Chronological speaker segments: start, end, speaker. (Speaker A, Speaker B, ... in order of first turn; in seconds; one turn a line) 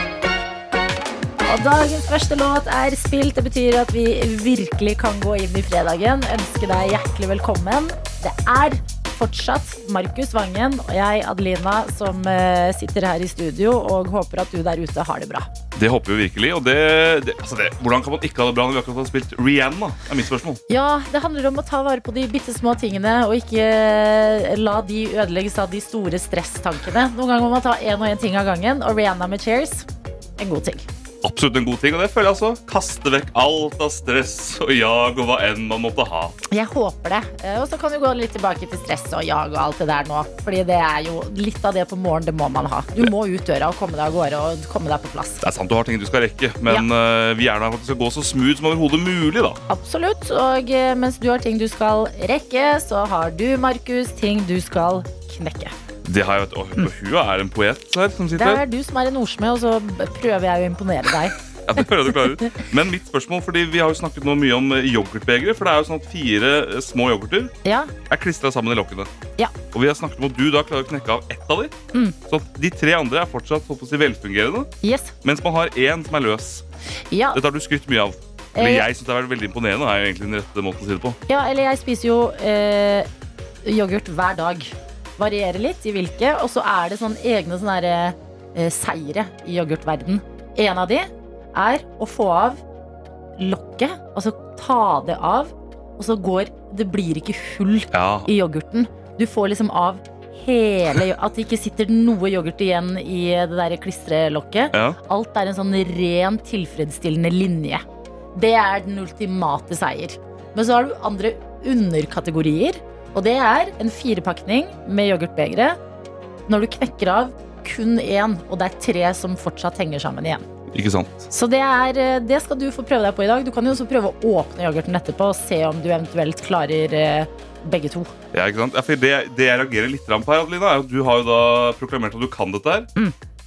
Speaker A: 1.4-15.5
Speaker B: 15.7-20.6
Speaker A: 20.7-29.9
Speaker A: 30.4-30.8
Speaker B: 31.2-36.4
Speaker A: 36.5-45.4
Speaker B: 45.4-49.6
Speaker A: 49.7-55.7
Speaker B: 56.0-58.6
Speaker A: 58.4-61.4
Speaker B: 61.6-67.5
Speaker A: 67.6-67.9
Speaker B: 68.1-69.1
Speaker B: 69.7-71.7
Speaker B: 72.3-74.7
Speaker A: 74.8-75.1
Speaker B: 75.2-76.6
Speaker A: 77.1-77.4
Speaker B: 77.3-81.2
Speaker A: 78.5-78.9
Speaker A: 81.3-83.1
Speaker A: 83.6-92.6
Speaker A: 93.4-115.8
Speaker B: 97.9-98.3
Speaker B: 104.7-105.0
Speaker A: 116.5-120.4
Speaker B: 120.7-121.3
Speaker A: 121.3-128.1
Speaker B: 128.3-132.9